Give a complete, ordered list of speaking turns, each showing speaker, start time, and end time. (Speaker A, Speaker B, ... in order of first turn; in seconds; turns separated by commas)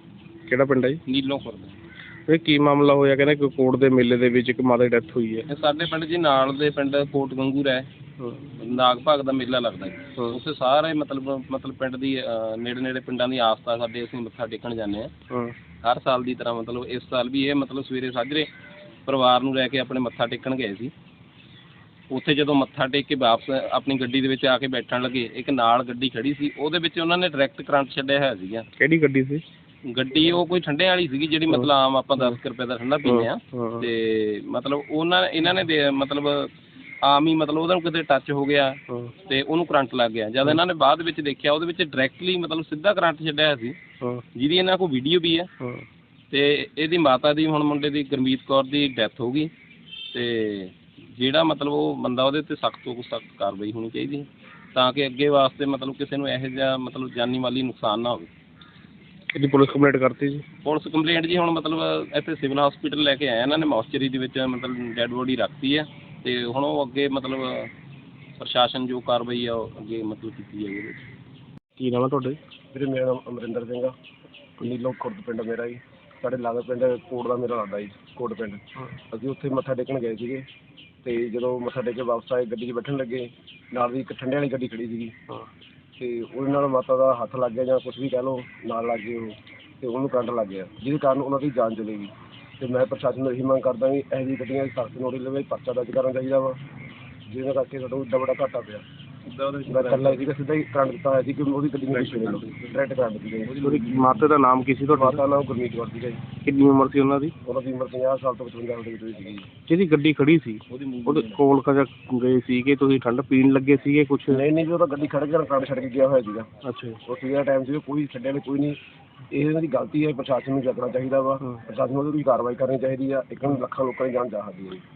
Speaker A: 0.5-1.0, Speaker B: 1.1-1.8, Speaker A: 2.3-5.5, Speaker B: 5.5-7.9, Speaker A: 8.2-8.5, Speaker B: 8.6-15.1, Speaker B: 15.8-18.5, Speaker B: 19.1-20.9, Speaker B: 22.1-28.7, Speaker A: 28.8-29.4, Speaker B: 29.9-36.5, Speaker A: 31.5-32.3, Speaker A: 33.0-33.9, Speaker B: 37.0-43.8, Speaker B: 44.3-45.5, Speaker B: 46.3-49.5, Speaker B: 50.1-58.3, Speaker A: 59.3-60.4, Speaker B: 60.6-67.7, Speaker B: 68.4-71.0, Speaker A: 71.8-72.4, Speaker C: 72.7-73.9, Speaker C: 74.6-80.5, Speaker C: 81.0-85.2, Speaker C: 86.0-96.6, Speaker C: 97.3-98.8, Speaker B: 99.2-100.2, Speaker C: 99.7-103.5, Speaker B: 102.2-102.7, Speaker B: 103.5-104.0, Speaker A: 103.6-105.2, Speaker C: 104.9-106.2, Speaker A: 106.4-107.3, Speaker C: 107.4-109.5, Speaker A: 109.7-114.4, Speaker B: 110.7-111.4, Speaker C: 114.3-116.5, Speaker A: 116.6-117.0, Speaker C: 117.0-118.8, Speaker C: 119.3-124.8